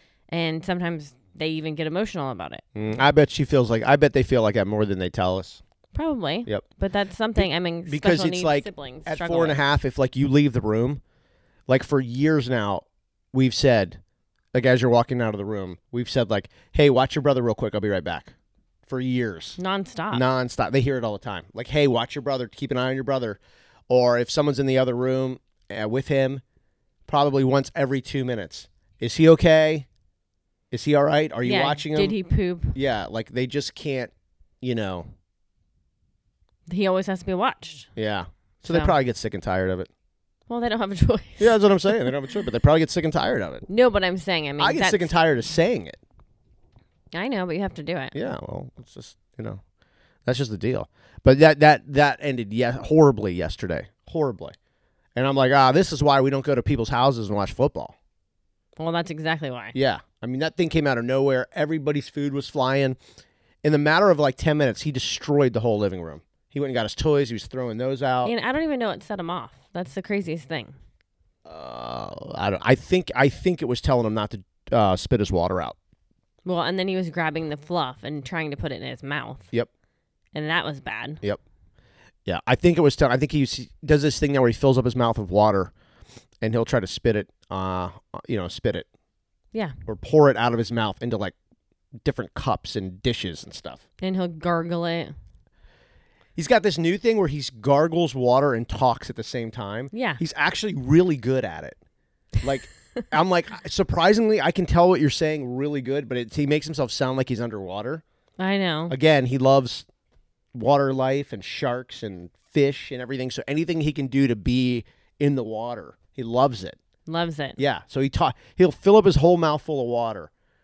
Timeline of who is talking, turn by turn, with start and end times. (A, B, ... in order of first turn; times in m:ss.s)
0:00.3-0:02.6 A
0:02.7-0:05.6 B
0:05.9-0:09.6 A
0:07.4-0:11.0 B
0:11.7-0:14.0 B
0:14.5-0:18.3 B
0:18.9-0:19.6 B
0:19.6-0:20.2 A
0:20.1-0:26.4 B
0:27.1-0:29.9 B
0:30.7-0:32.1 B
0:31.4-0:32.7 A
0:32.7-0:34.1 B
0:34.6-0:35.1 B
0:36.7-0:37.9 A
0:38.0-0:39.9 B
0:38.7-0:38.9 A
0:40.5-0:42.0 A
0:41.4-0:43.6 B
0:43.7-0:45.1 A
0:44.6-0:46.0 B
0:47.1-0:48.1 A
0:48.1-0:49.6 B
0:50.2-0:54.5 B
0:55.2-0:57.9 B
0:58.8-0:59.7 A
0:59.7-1:03.0 B
1:03.6-1:08.3 B
1:08.2-1:10.7 A
1:11.4-1:15.8 B
1:16.4-1:19.5 A
1:20.3-1:21.2 A
1:22.2-1:25.7 B
1:26.4-1:28.9 B
1:29.8-1:31.3 B
1:32.0-1:33.8 B
1:34.0-1:35.1 A
1:36.4-1:41.8 B
1:39.9-1:40.2 A
1:42.4-1:48.0 B
1:48.4-1:48.9 A
1:48.9-1:49.8 B
1:50.5-1:56.8 B
1:57.0-1:57.6 A
1:57.6-2:00.3 B